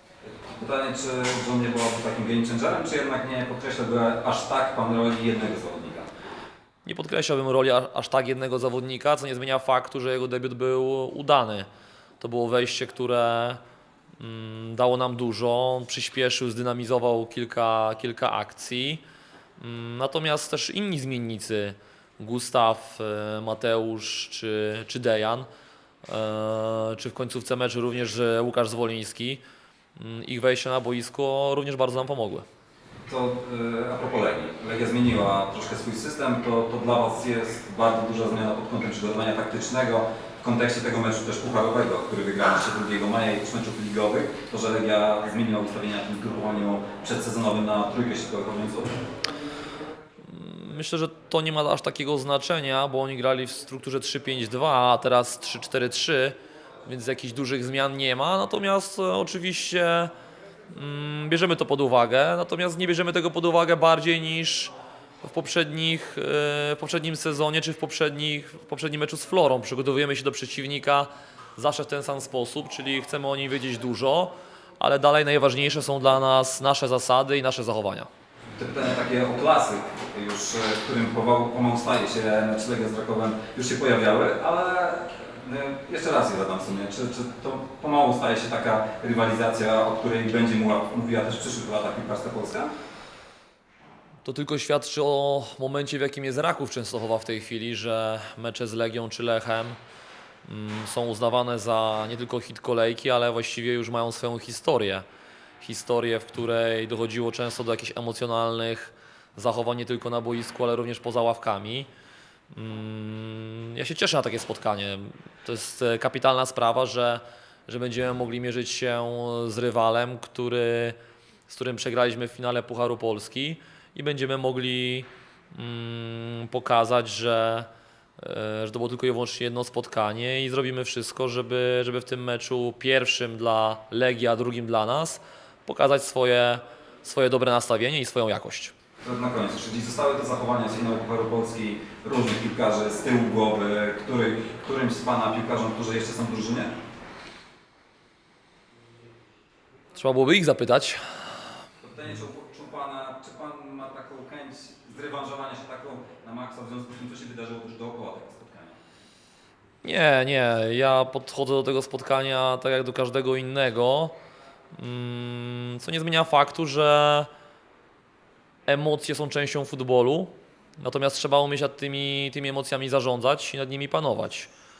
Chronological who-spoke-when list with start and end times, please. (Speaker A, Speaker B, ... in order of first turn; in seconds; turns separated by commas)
Speaker A: 0.4-6.1, Speaker B: 6.8-11.7, Speaker B: 12.2-13.6, Speaker B: 14.2-19.0, Speaker B: 19.6-25.5, Speaker B: 26.1-29.4, Speaker B: 29.9-32.5, Speaker A: 33.1-49.0, Speaker B: 50.2-60.1, Speaker B: 60.7-78.1, Speaker A: 78.5-92.7, Speaker B: 94.2-99.8, Speaker B: 100.4-105.0, Speaker B: 105.6-111.9, Speaker B: 112.5-121.0, Speaker B: 121.5-138.7, Speaker A: 139.0-146.7, Speaker B: 149.9-151.2, Speaker A: 151.8-158.8, Speaker B: 159.8-164.2, Speaker B: 164.7-167.3, Speaker B: 168.7-174.5